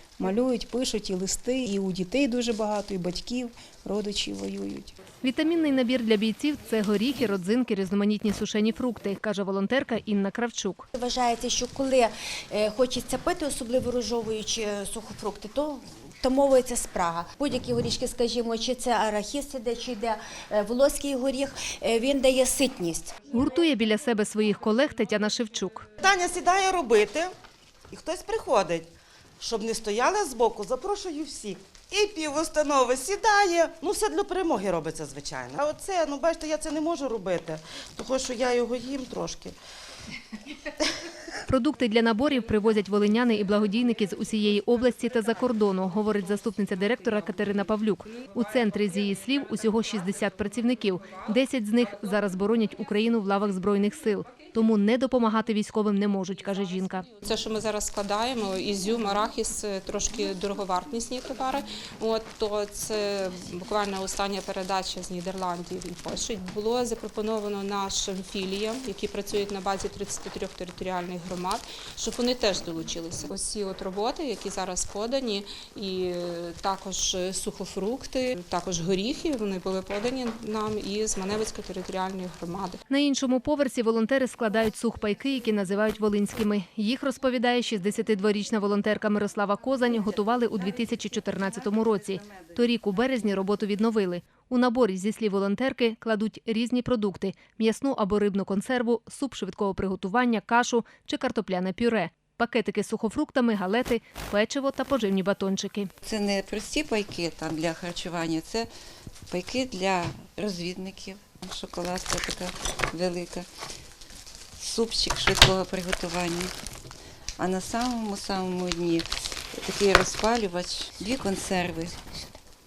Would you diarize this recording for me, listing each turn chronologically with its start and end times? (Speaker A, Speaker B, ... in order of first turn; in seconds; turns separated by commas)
Speaker A: 0.2-5.0, Speaker B: 5.2-10.9, Speaker C: 10.9-23.1, Speaker B: 23.3-25.9, Speaker D: 26.0-27.3, Speaker D: 27.9-28.9, Speaker D: 29.4-39.6, Speaker B: 41.5-57.0, Speaker E: 57.2-82.8, Speaker B: 82.9-105.9, Speaker F: 106.0-108.7, Speaker F: 109.3-113.5, Speaker F: 114.6-116.5, Speaker F: 117.4-122.0